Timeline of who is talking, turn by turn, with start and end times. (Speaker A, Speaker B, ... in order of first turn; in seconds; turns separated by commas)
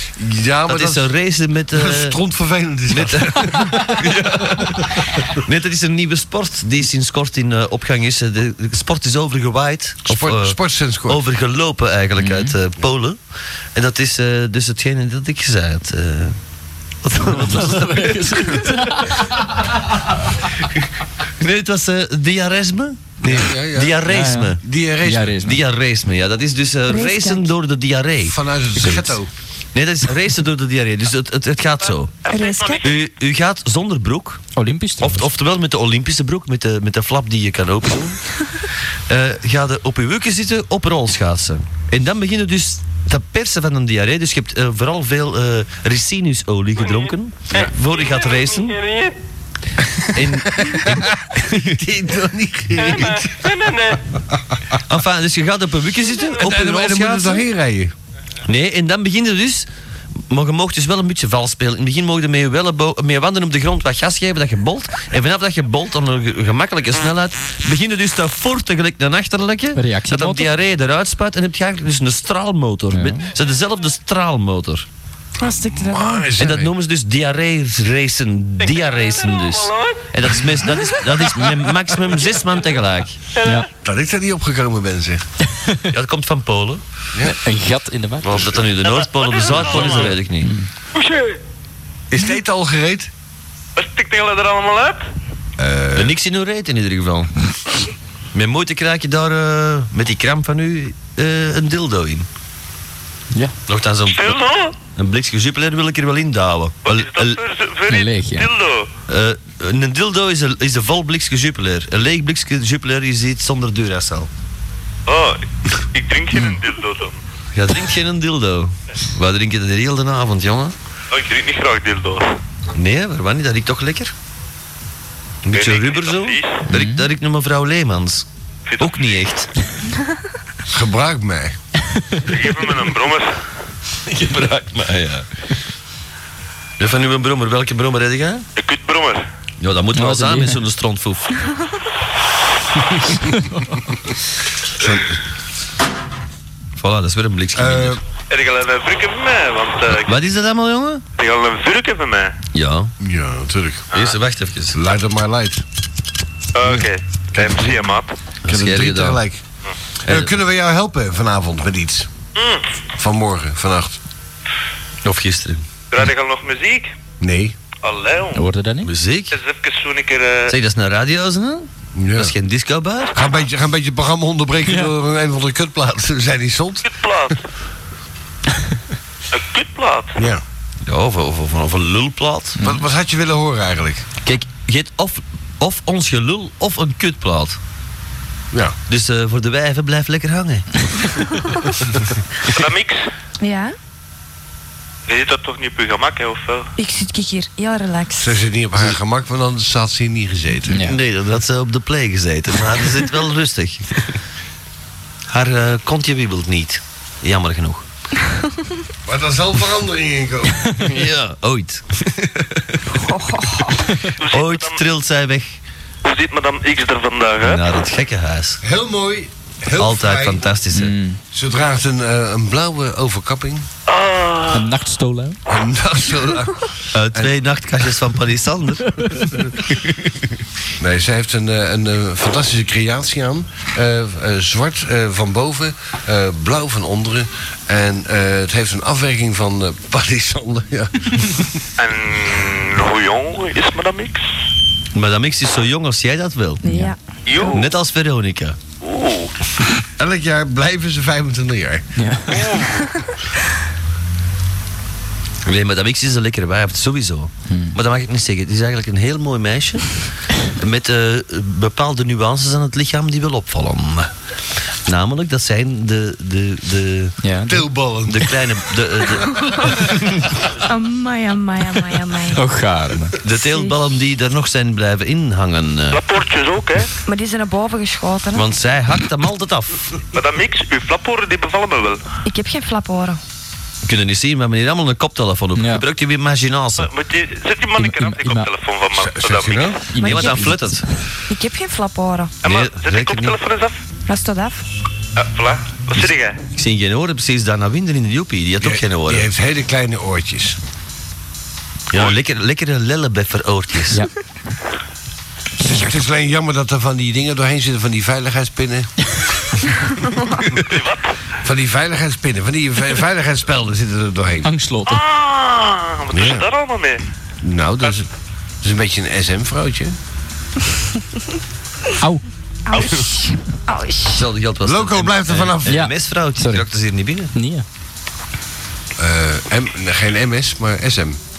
Speaker A: 0.1-1.1, Speaker B: 0.7-2.2, Speaker A: 1.7-4.2, Speaker B: 2.9-13.2, Speaker A: 10.1-11.2, Speaker C: 12.2-12.5, Speaker B: 13.7-16.4, Speaker B: 17.0-19.2, Speaker C: 17.3-19.4, Speaker B: 20.6-20.8, Speaker B: 21.4-24.6, Speaker A: 23.2-24.0, Speaker C: 24.1-25.6, Speaker A: 24.6-25.4, Speaker B: 25.4-28.4, Speaker D: 26.9-27.5, Speaker A: 28.2-29.3, Speaker C: 28.8-29.1, Speaker B: 29.7-32.1, Speaker E: 32.2-32.9, Speaker D: 32.3-32.8, Speaker B: 32.8-34.4, Speaker C: 34.5-35.3, Speaker B: 35.0-38.2, Speaker B: 39.1-48.8, Speaker E: 47.6-49.1, Speaker B: 50.1-51.6, Speaker A: 50.5-53.5, Speaker B: 54.9-57.4, Speaker A: 56.3-57.9, Speaker B: 58.5-59.7, Speaker B: 60.3-74.9, Speaker C: 69.7-70.5, Speaker C: 72.9-73.2, Speaker D: 75.4-76.2, Speaker A: 75.5-76.7, Speaker B: 76.4-83.2, Speaker E: 78.7-80.0, Speaker E: 83.3-83.7, Speaker A: 83.8-85.2, Speaker B: 85.9-86.8, Speaker C: 87.4-88.5, Speaker B: 88.2-90.5, Speaker E: 88.8-90.2, Speaker C: 89.8-90.7, Speaker E: 91.0-91.2, Speaker A: 92.1-93.1, Speaker E: 93.8-95.0, Speaker A: 95.6-96.1, Speaker B: 95.9-97.3, Speaker B: 98.3-102.3, Speaker B: 103.7-104.4, Speaker E: 104.0-104.7, Speaker B: 105.0-107.4, Speaker E: 106.8-108.9, Speaker C: 107.9-108.5, Speaker B: 109.1-114.3, Speaker E: 115.0-117.2, Speaker B: 117.5-120.7, Speaker E: 121.1-122.3, Speaker B: 122.8-124.1, Speaker B: 125.4-128.2, Speaker E: 125.5-126.6, Speaker C: 126.7-127.0, Speaker E: 128.7-129.2, Speaker B: 128.8-129.5, Speaker A: 130.7-131.6, Speaker E: 132.2-133.4, Speaker B: 134.1-135.3, Speaker B: 136.8-138.4, Speaker E: 138.6-139.2, Speaker B: 139.6-141.4, Speaker C: 139.9-140.6, Speaker A: 144.8-145.2, Speaker B: 146.8-148.0, Speaker A: 147.6-148.0, Speaker E: 148.3-150.2, Speaker B: 149.9-151.0, Speaker E: 151.2-152.3, Speaker B: 152.5-152.9, Speaker A: 153.0-153.9, Speaker E: 153.9-154.2, Speaker B: 153.9-154.8, Speaker A: 154.7-155.6, Speaker E: 156.5-158.1, Speaker A: 156.6-157.9, Speaker B: 158.4-159.2, Speaker A: 158.4-159.4, Speaker B: 160.1-160.4, Speaker A: 160.1-162.1, Speaker E: 162.3-162.6, Speaker A: 163.0-164.0, Speaker B: 165.0-165.7, Speaker E: 165.9-166.9, Speaker A: 167.2-167.6, Speaker E: 167.8-168.5, Speaker C: 168.3-168.9, Speaker B: 168.8-169.3, Speaker E: 169.3-170.5, Speaker B: 170.5-173.2, Speaker A: 171.9-172.3, Speaker A: 173.1-176.9, Speaker C: 174.7-174.9, Speaker E: 176.8-177.4, Speaker E: 179.3-180.2, Speaker A: 180.2-180.4, Speaker B: 180.8-182.6, Speaker A: 182.6-184.0, Speaker B: 184.2-187.6, Speaker B: 188.9-190.7, Speaker E: 192.5-193.0, Speaker D: 193.4-193.7, Speaker E: 195.1-196.7, Speaker D: 196.8-198.4, Speaker A: 198.2-200.8, Speaker C: 200.7-201.0, Speaker B: 200.8-204.0, Speaker B: 205.3-207.8, Speaker A: 209.0-210.7, Speaker B: 210.8-212.6, Speaker D: 212.9-213.8, Speaker E: 214.2-214.8, Speaker B: 214.3-215.6, Speaker E: 216.0-217.6, Speaker B: 217.4-218.6, Speaker A: 218.6-220.4, Speaker B: 219.7-221.0, Speaker C: 220.7-221.2, Speaker A: 221.3-223.7, Speaker E: 223.9-224.7, Speaker C: 224.5-225.4, Speaker A: 225.5-227.3, Speaker B: 226.9-228.9, Speaker A: 230.8-241.6, Speaker E: 241.8-244.2, Speaker B: 244.9-246.6, Speaker D: 246.6-247.5, Speaker C: 246.6-246.9, Speaker E: 247.2-247.7, Speaker B: 247.4-248.6, Speaker E: 248.8-249.3, Speaker A: 250.0-251.8, Speaker C: 251.9-252.4, Speaker E: 252.3-252.9, Speaker B: 255.4-259.9, Speaker C: 257.5-257.8, Speaker B: 260.6-264.1, Speaker B: 264.9-267.1, Speaker C: 267.2-267.6, Speaker A: 267.5-268.3, Speaker B: 268.1-269.4, Speaker D: 269.3-269.9, Speaker D: 270.6-272.4, Speaker C: 272.3-273.2, Speaker B: 273.2-276.0, Speaker D: 273.3-273.8, Speaker E: 275.9-276.9, Speaker D: 277.0-278.5, Speaker B: 278.3-279.8, Speaker E: 280.1-282.0, Speaker D: 282.2-283.2, Speaker B: 283.8-286.9, Speaker C: 285.6-285.8, Speaker E: 286.8-289.8, Speaker C: 287.8-288.5, Speaker A: 288.9-289.8, Speaker C: 289.9-290.9, Speaker D: 290.0-290.6, Speaker B: 290.0-290.8, Speaker D: 291.3-292.3, Speaker E: 292.4-293.8, Speaker B: 292.4-293.4, Speaker D: 294.1-294.6, Speaker E: 295.1-296.4, Speaker B: 295.9-299.3, Speaker A: 298.6-300.6, Speaker B: 301.9-304.0, Speaker A: 305.6-308.9, Speaker E: 310.5-311.1, Speaker A: 311.4-314.5, Speaker C: 314.4-315.0, Speaker E: 314.9-317.0, Speaker A: 316.1-316.5, Speaker A: 317.4-318.1, Speaker A: 318.6-319.9, Speaker D: 322.7-324.2, Speaker B: 324.1-327.3, Speaker A: 324.6-325.8, Speaker C: 325.6-326.6, Speaker C: 327.3-327.6, Speaker A: 329.0-331.2